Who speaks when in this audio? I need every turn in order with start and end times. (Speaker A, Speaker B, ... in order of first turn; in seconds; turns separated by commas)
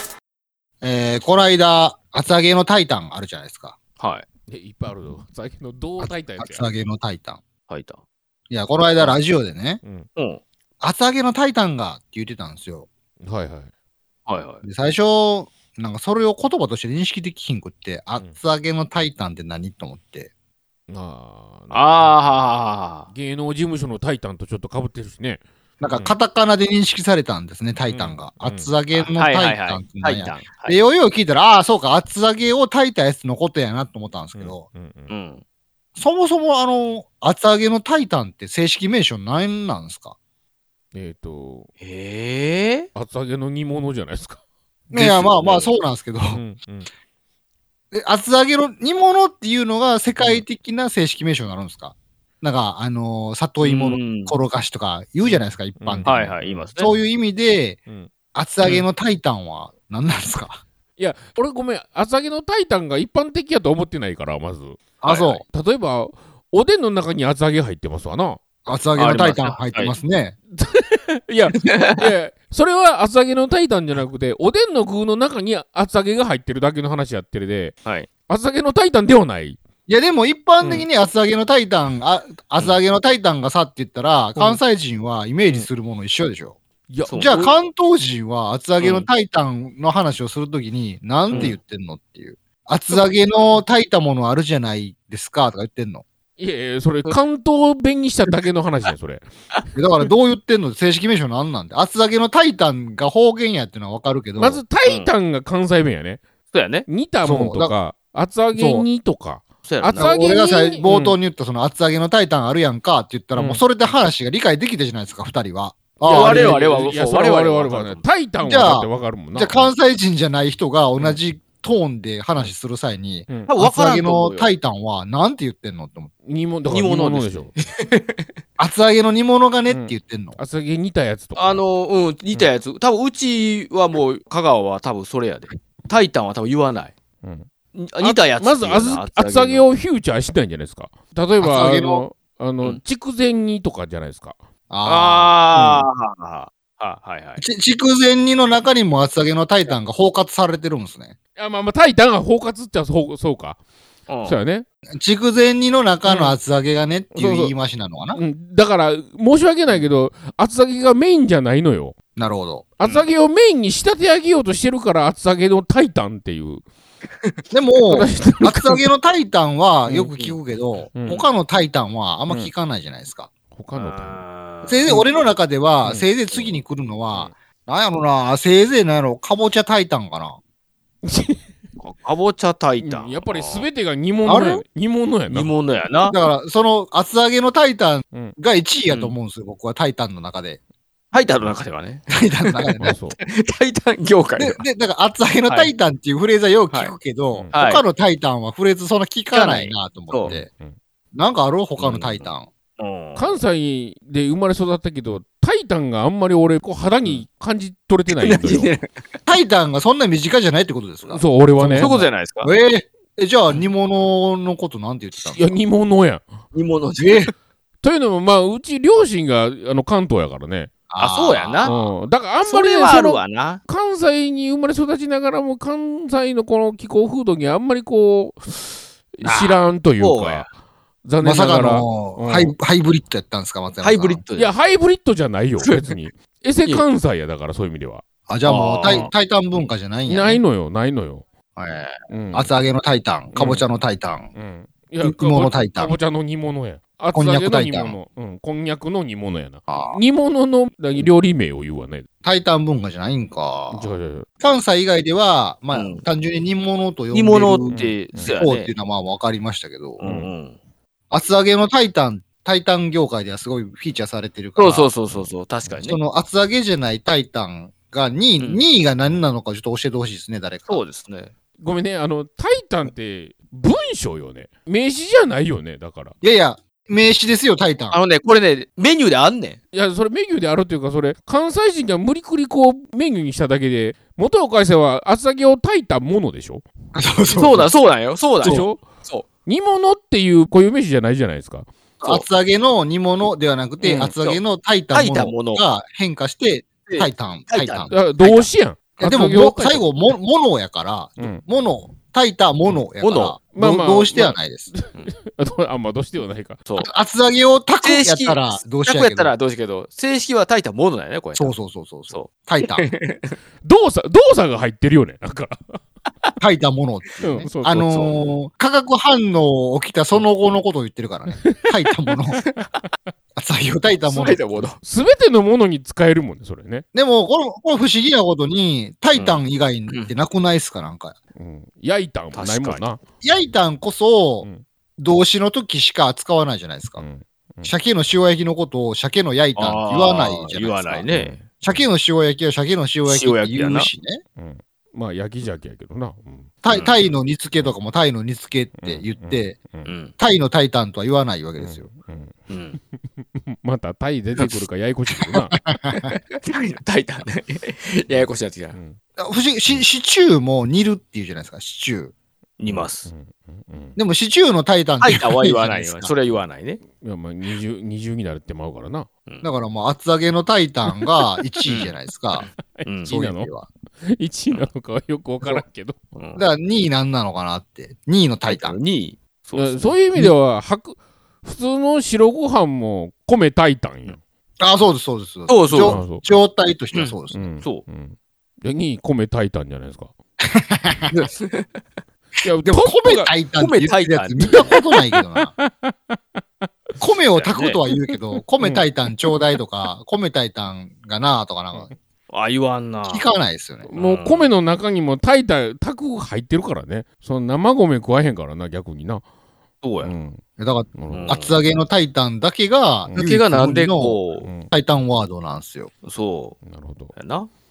Speaker A: 0.8-3.8, Speaker B: 4.0-4.2, Speaker C: 4.5-6.7, Speaker A: 6.0-7.4, Speaker B: 7.7-8.0, Speaker A: 8.5-9.8, Speaker B: 10.2-10.4, Speaker A: 10.8-12.9, Speaker C: 13.2-13.7, Speaker B: 14.3-14.6, Speaker A: 14.6-20.3, Speaker C: 20.9-22.1, Speaker B: 21.7-23.1, Speaker C: 23.1-26.1, Speaker A: 25.8-34.7, Speaker C: 27.9-28.7, Speaker B: 28.9-30.8, Speaker C: 34.3-35.1, Speaker B: 35.1-35.4, Speaker A: 36.0-40.1, Speaker C: 40.9-41.7, Speaker B: 41.8-42.9, Speaker C: 42.9-44.4, Speaker C: 44.9-45.4, Speaker A: 44.9-46.4, Speaker B: 45.3-45.7, Speaker C: 46.3-46.9, Speaker A: 47.9-57.8, Speaker B: 53.6-54.4, Speaker C: 55.2-57.0, Speaker B: 56.0-56.9, Speaker A: 58.3-60.6, Speaker C: 61.0-64.8, Speaker A: 65.0-65.4, Speaker B: 65.0-65.4, Speaker C: 65.4-68.4, Speaker A: 68.7-70.3, Speaker B: 69.0-69.9, Speaker C: 70.5-77.7, Speaker B: 71.7-72.0, Speaker C: 78.3-79.6, Speaker A: 79.9-86.6, Speaker B: 80.6-80.9, Speaker C: 86.9-87.5, Speaker B: 87.1-87.4, Speaker A: 87.2-96.0, Speaker B: 88.8-89.1, Speaker B: 91.3-91.6, Speaker C: 96.4-99.3, Speaker A: 99.7-104.6, Speaker C: 104.4-106.2, Speaker B: 104.8-105.1, Speaker B: 106.5-106.9, Speaker C: 106.9-111.2, Speaker A: 107.2-107.8, Speaker A: 108.5-108.9, Speaker B: 109.6-110.1, Speaker A: 109.9-116.6, Speaker C: 113.3-113.6, Speaker B: 116.0-118.0, Speaker C: 116.0-119.7, Speaker A: 118.4-126.1, Speaker B: 123.5-124.5, Speaker C: 126.2-127.5, Speaker B: 126.7-128.0, Speaker A: 128.6-130.4, Speaker C: 129.7-131.6, Speaker B: 131.3-136.9, Speaker C: 137.2-137.5, Speaker B: 137.7-139.7, Speaker C: 138.0-144.4, Speaker A: 141.4-142.0, Speaker A: 144.7-145.8, Speaker B: 144.8-147.4, Speaker A: 147.4-151.1, Speaker C: 151.3-153.6, Speaker B: 154.1-154.4, Speaker C: 154.2-154.6, Speaker A: 154.9-158.2, Speaker B: 156.1-156.3, Speaker C: 157.1-157.5, Speaker C: 158.1-161.9, Speaker A: 162.2-162.6, Speaker C: 162.8-166.6, Speaker A: 167.5-173.3, Speaker C: 167.9-168.8, Speaker B: 169.8-170.4, Speaker C: 170.9-171.2, Speaker C: 173.5-174.2, Speaker B: 173.7-175.0, Speaker A: 174.7-180.4, Speaker B: 175.8-176.6, Speaker C: 181.0-181.4, Speaker B: 181.8-183.7, Speaker C: 182.8-185.5, Speaker A: 184.2-184.6, Speaker B: 185.3-186.1, Speaker A: 186.0-190.6, Speaker B: 188.9-189.2, Speaker B: 191.1-194.6, Speaker A: 192.1-192.9, Speaker C: 192.8-193.2, Speaker A: 194.4-200.5, Speaker B: 195.4-195.7, Speaker B: 196.7-196.9, Speaker B: 197.5-197.8, Speaker B: 199.3-200.4, Speaker C: 200.2-200.8, Speaker A: 201.1-202.5, Speaker B: 201.8-203.4, Speaker C: 203.2-208.7, Speaker B: 208.1-209.2, Speaker A: 209.3-215.6, Speaker C: 211.1-212.0, Speaker B: 211.6-212.5, Speaker C: 215.3-216.2, Speaker B: 216.5-217.3, Speaker A: 217.0-217.3, Speaker C: 217.8-220.7, Speaker A: 220.9-221.8, Speaker B: 221.0-221.7, Speaker C: 221.6-230.5, Speaker B: 222.4-223.6, Speaker B: 229.2-230.5, Speaker C: 231.0-232.5, Speaker A: 231.2-234.2, Speaker B: 233.8-234.6, Speaker C: 234.3-238.0, Speaker B: 235.6-235.9, Speaker A: 238.3-240.4, Speaker B: 238.4-239.1, Speaker C: 240.1-241.2, Speaker B: 241.6-241.9, Speaker C: 242.1-242.6, Speaker A: 242.3-244.3, Speaker C: 243.3-243.6, Speaker B: 243.3-243.6, Speaker C: 244.3-252.1, Speaker A: 245.0-246.0, Speaker A: 247.1-248.0, Speaker A: 249.7-249.9, Speaker A: 252.2-253.9, Speaker C: 253.7-254.2, Speaker A: 254.4-260.0, Speaker B: 255.7-256.0, Speaker B: 257.1-258.7, Speaker C: 257.7-258.4, Speaker B: 260.0-260.6, Speaker C: 260.0-260.3, Speaker A: 261.1-264.9, Speaker B: 264.6-266.0, Speaker C: 265.1-265.8, Speaker A: 265.8-270.8, Speaker B: 268.4-268.6, Speaker B: 270.7-271.3, Speaker C: 271.6-276.1, Speaker A: 276.2-278.0, Speaker B: 277.9-279.6, Speaker C: 279.7-286.6, Speaker A: 286.9-287.7, Speaker B: 287.3-289.2, Speaker A: 288.4-288.7, Speaker C: 288.4-288.8, Speaker C: 289.4-291.7, Speaker B: 292.0-292.2, Speaker A: 292.0-298.0, Speaker B: 293.8-295.6, Speaker B: 296.9-298.5, Speaker C: 297.9-299.9, Speaker A: 299.0-304.7, Speaker B: 303.0-303.4, Speaker C: 303.5-306.6, Speaker A: 306.8-309.3, Speaker B: 307.8-311.5, Speaker A: 311.4-312.9, Speaker B: 312.1-313.3, Speaker C: 313.6-315.8, Speaker A: 316.4-322.4, Speaker C: 317.2-318.0, Speaker C: 321.3-321.6, Speaker C: 322.3-323.1, Speaker A: 323.4-324.4, Speaker B: 324.1-324.8, Speaker C: 324.8-326.8, Speaker A: 326.9-331.1, Speaker B: 329.1-330.1, Speaker C: 331.4-333.0, Speaker B: 332.3-332.9, Speaker A: 333.2-337.1, Speaker C: 337.0-337.7, Speaker A: 337.6-341.1, Speaker B: 339.6-341.4, Speaker C: 341.1-341.4, Speaker A: 341.6-344.2, Speaker B: 343.0-343.9, Speaker C: 344.4-346.5, Speaker A: 346.6-349.6, Speaker B: 346.7-346.9, Speaker C: 348.8-349.9, Speaker B: 349.8-350.1, Speaker A: 350.2-351.9, Speaker C: 351.6-352.4, Speaker B: 352.5-352.8, Speaker C: 353.0-355.6, Speaker B: 354.4-354.6, Speaker A: 355.2-356.1, Speaker B: 356.3-358.8, Speaker C: 358.1-359.0, Speaker A: 359.2-362.1, Speaker B: 362.6-363.1, Speaker C: 362.7-363.9, Speaker A: 363.9-366.1, Speaker B: 365.0-366.8, Speaker C: 366.9-369.1, Speaker A: 369.4-372.5, Speaker C: 370.9-371.8, Speaker B: 371.7-373.1, Speaker C: 372.5-373.5, Speaker A: 373.1-373.7, Speaker C: 374.0-376.0, Speaker B: 376.1-376.4, Speaker A: 376.4-378.8, Speaker B: 378.5-380.0, Speaker C: 379.5-384.2, Speaker A: 384.6-387.5, Speaker B: 385.5-386.0, Speaker C: 385.8-386.2, Speaker B: 386.9-387.8, Speaker C: 387.3-390.1, Speaker A: 390.5-391.1, Speaker B: 391.1-391.7, Speaker C: 392.4-393.3, Speaker A: 392.6-395.5, Speaker B: 393.6-394.7, Speaker C: 394.5-394.8, Speaker C: 395.4-396.7, Speaker A: 397.0-401.9, Speaker B: 397.3-397.8, Speaker C: 397.9-399.5, Speaker B: 402.3-403.3, Speaker A: 403.1-403.9, Speaker C: 403.8-409.2, Speaker B: 403.9-404.5, Speaker B: 409.8-410.1, Speaker C: 410.0-410.4, Speaker A: 410.6-415.9, Speaker C: 410.9-411.4, Speaker B: 411.1-411.6, Speaker C: 413.1-413.3, Speaker B: 413.1-414.5, Speaker C: 414.4-414.7, Speaker B: 416.0-416.6, Speaker C: 416.6-417.1, Speaker B: 417.1-417.5